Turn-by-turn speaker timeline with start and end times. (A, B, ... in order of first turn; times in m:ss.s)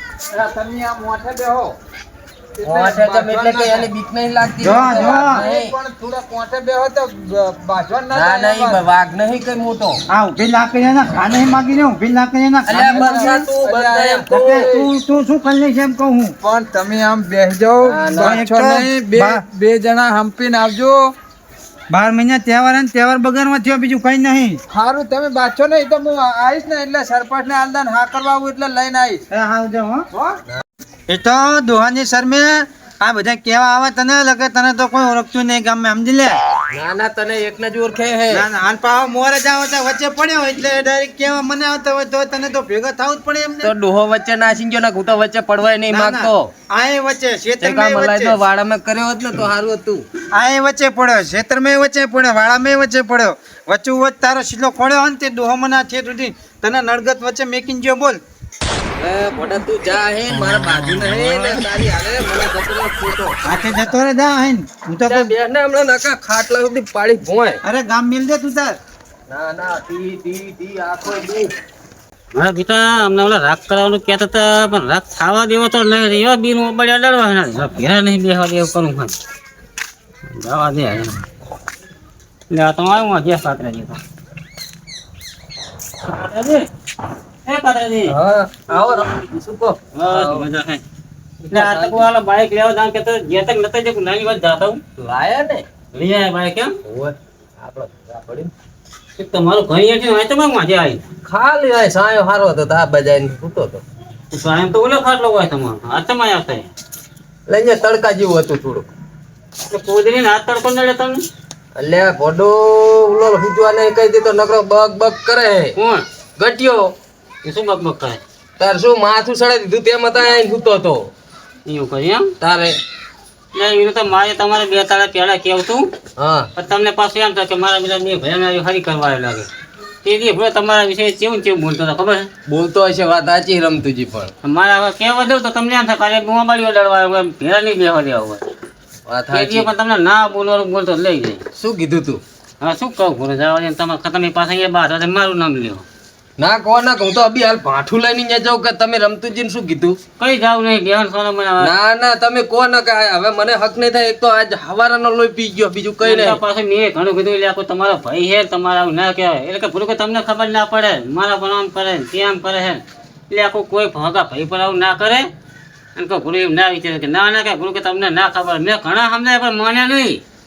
0:00.3-0:01.8 A
0:02.6-0:03.9 A
0:02.6-0:05.7 B
0:04.6-0:05.4 C
0:04.8-0:08.8 A
0:08.1-0:10.0 B
0:10.1-0:13.4 C
0:12.6-0:14.7 B
0:12.8-0:14.9 A
0:14.3-0:16.3 C
0:16.4-0:21.1 A
0:17.8-0:18.4 B
0:18.2-0:19.4 C
0:21.9-0:24.6 C
0:24.7-0:29.2 A
0:29.3-0:30.0 C
0:30.1-0:30.4 A
0:31.1-0:36.4 C
0:36.7-0:38.4 B
0:38.3-0:43.7 C
0:43.6-0:46.5 B
0:45.9-0:48.4 C
0:47.6-0:50.0 B
0:50.3-0:58.2 C
0:59.0-1:03.4 B
1:03.4-1:05.3 C
1:05.0-1:07.6 B
1:07.6-1:08.7 C
1:09.3-1:11.5 B
1:12.3-1:19.1 D
1:20.4-1:21.2 D
1:22.5-1:24.0 D
1:26.0-1:26.6 D
1:27.4-1:28.1 D
1:28.0-1:30.4 B
1:29.9-1:30.8 D
1:31.4-1:32.0 B
1:31.5-1:34.8 D
1:35.0-1:35.6 B
1:35.9-1:36.7 D
1:36.8-1:38.5 B
1:39.2-1:41.0 D
1:41.2-1:43.8 B
1:44.3-1:46.7 D
1:47.5-1:48.9 B
1:49.7-1:51.2 D
1:51.8-1:55.8 B
1:55.7-1:56.0 D
1:56.4-1:56.9 B
1:57.4-1:58.2 D
1:58.6-2:01.1 B
2:01.6-2:02.3 D
2:02.4-2:02.8 B
2:03.5-2:05.9 D
2:06.2-2:06.5 B
2:06.6-2:09.5 D
2:10.0-2:12.3 D
2:12.5-2:14.3 B
2:14.4-2:18.4 D
2:19.1-2:19.7 B
2:19.3-2:21.4 D
2:21.6-2:22.2 B
2:22.6-2:25.8 D
2:26.4-2:30.0 B
2:30.2-2:31.7 D
2:31.6-2:36.4 B
2:36.0-2:45.3 D
2:46.0-2:50.2 D